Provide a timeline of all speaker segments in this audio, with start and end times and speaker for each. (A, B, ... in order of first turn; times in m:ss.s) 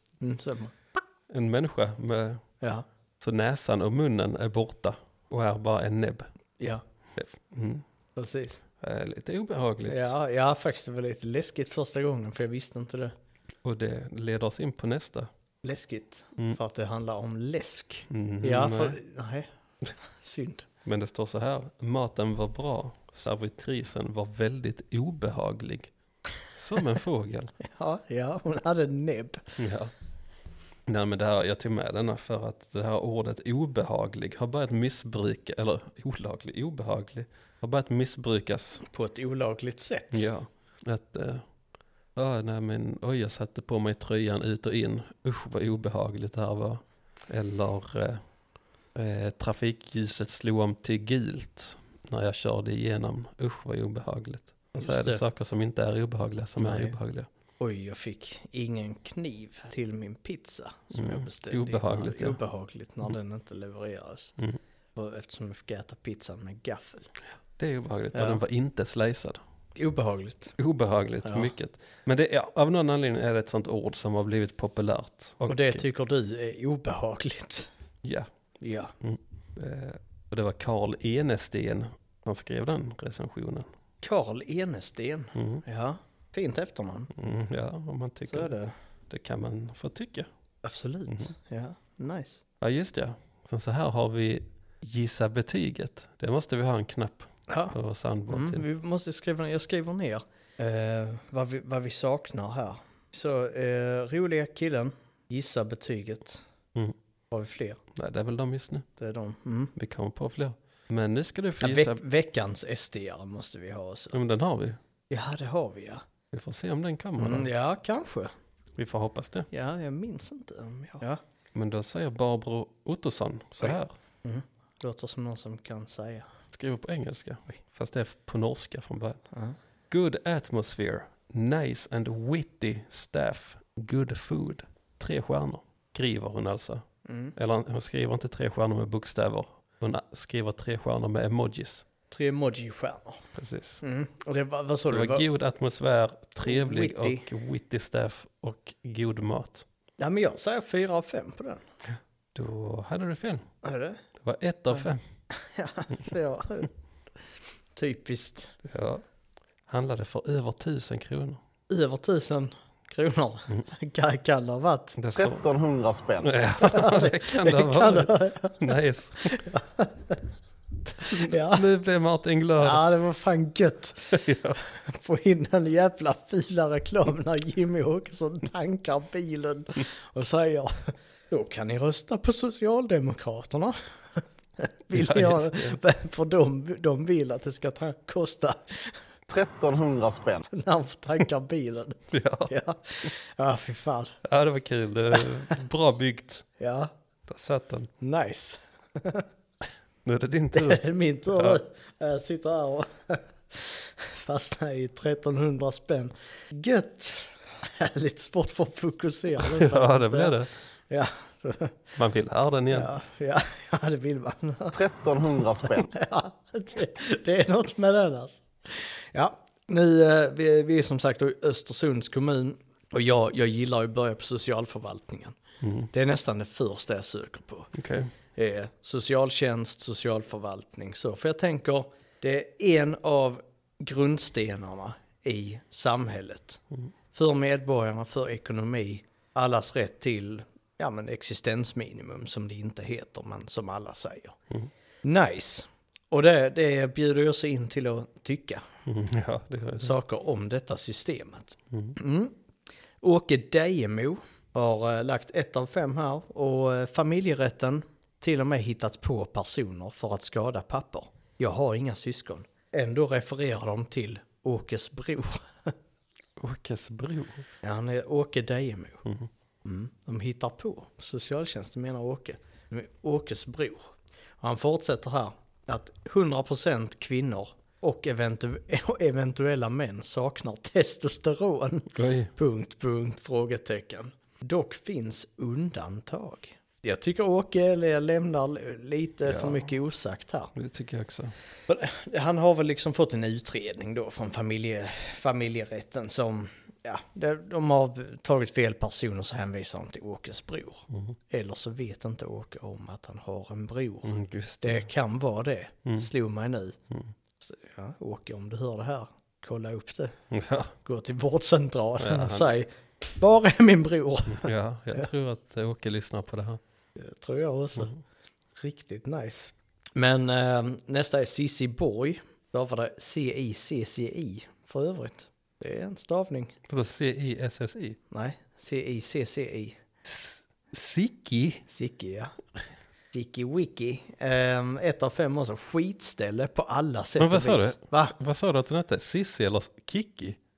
0:00.2-0:00.7 A
0:01.3-0:02.4 B
0:03.2-0:06.3 B
0:07.2-0:07.8 B
0:08.2-0:08.6 A
0:08.8-0:10.1 B
0:09.8-0:13.1 A
0:13.6-0:15.3 B
0:15.6-0:20.6 A
0:18.1-0:19.0 B
0:20.8-0:25.9 B
0:26.5-0:27.5 B
0:27.6-0:29.5 A
0:29.6-0:29.9 B
0:30.9-0:38.8 B
0:38.8-0:40.3 A
0:40.1-0:41.4 B
0:42.2-0:48.2 B
0:48.9-0:57.3 B
0:54.7-0:55.2 A
0:56.6-0:57.0 A
0:57.6-1:04.3 A
1:00.9-1:02.4 B
1:05.0-1:07.1 A
1:07.6-1:09.4 B
1:08.1-1:08.4 A
1:09.8-1:10.6 A
1:10.6-1:15.8 B
1:11.2-1:11.5 A
1:15.5-1:17.7 A
1:18.0-1:18.3 B
1:18.6-1:18.9 A
1:19.0-1:23.7 B
1:24.0-1:27.1 A
1:25.3-1:25.6 B
1:27.1-1:28.5 B
1:28.3-1:28.7 A
1:29.1-1:30.3 B
1:30.6-1:32.4 A
1:32.6-1:38.6 B
1:37.5-1:37.8 A
1:38.3-1:46.4 A
1:47.3-1:47.8 A
1:47.9-1:48.9 B
1:49.0-1:49.7 A
1:49.8-1:52.0 B
1:51.6-1:54.2 A
1:54.1-1:54.8 B
1:55.1-1:56.0 A
1:56.3-1:57.5 B
1:57.2-1:58.3 A
1:58.7-1:59.5 B
1:59.5-2:01.2 A
2:01.5-2:03.9 B
2:03.6-2:06.3 A
2:06.5-2:09.2 B
2:09.9-2:21.8 B
2:17.0-2:17.3 A
2:22.1-2:23.2 A
2:23.3-2:23.8 B
2:23.8-2:25.2 A
2:24.9-2:29.6 B
2:26.4-2:27.2 A
2:30.0-2:31.6 A
2:31.8-2:33.4 B
2:33.6-2:34.0 A
2:34.2-2:35.0 B
2:34.7-2:36.7 A
2:37.8-2:38.5 A
2:38.7-2:39.0 B
2:39.7-2:41.4 B
2:41.7-2:45.0 A
2:45.0-2:45.4 B
2:45.2-2:46.3 C
2:46.2-2:49.4 B
2:46.6-2:50.2 A
2:51.0-2:51.7 A
2:51.0-2:52.8 B
2:52.6-3:09.0 A
2:54.1-2:54.6 B
3:04.9-3:05.8 B
3:09.3-3:10.4 C
3:10.5-3:14.2 A
3:12.1-3:12.5 B
3:14.2-3:16.4 B
3:16.6-3:16.9 A
3:17.3-3:17.9 B
3:18.0-3:19.3 A
3:20.0-3:21.6 B
3:20.5-3:30.4 A
3:29.4-3:30.5 B
3:30.9-3:31.8 A
3:32.0-3:32.9 B
3:32.7-3:34.8 A
3:34.7-3:35.9 C
3:35.8-3:45.4 A
3:45.6-3:45.9 B
3:45.9-3:47.7 A
3:47.7-3:48.1 B
3:48.3-3:56.6 A
3:57.1-4:04.4 A
4:05.0-4:08.6 A
4:08.8-4:09.9 B
4:09.8-4:12.3 A
4:13.0-4:25.7 A
4:26.4-4:27.4 B
4:27.6-4:29.0 A
4:29.6-4:50.5 A
4:41.9-4:42.3 B
4:49.2-4:49.7 B
4:50.5-4:51.3 B
4:51.7-5:06.8 A
5:04.0-5:04.9 B
5:07.4-5:10.1 A
5:10.3-5:10.7 B
5:10.8-5:15.0 A
5:12.0-5:12.5 B
5:14.4-5:16.6 B
5:17.0-5:17.9 A
5:18.6-5:26.5 A
5:26.7-5:28.0 B
5:28.1-5:29.8 A
5:30.0-5:31.6 B
5:31.7-5:32.3 A
5:33.1-5:38.1 A
5:37.2-5:40.4 B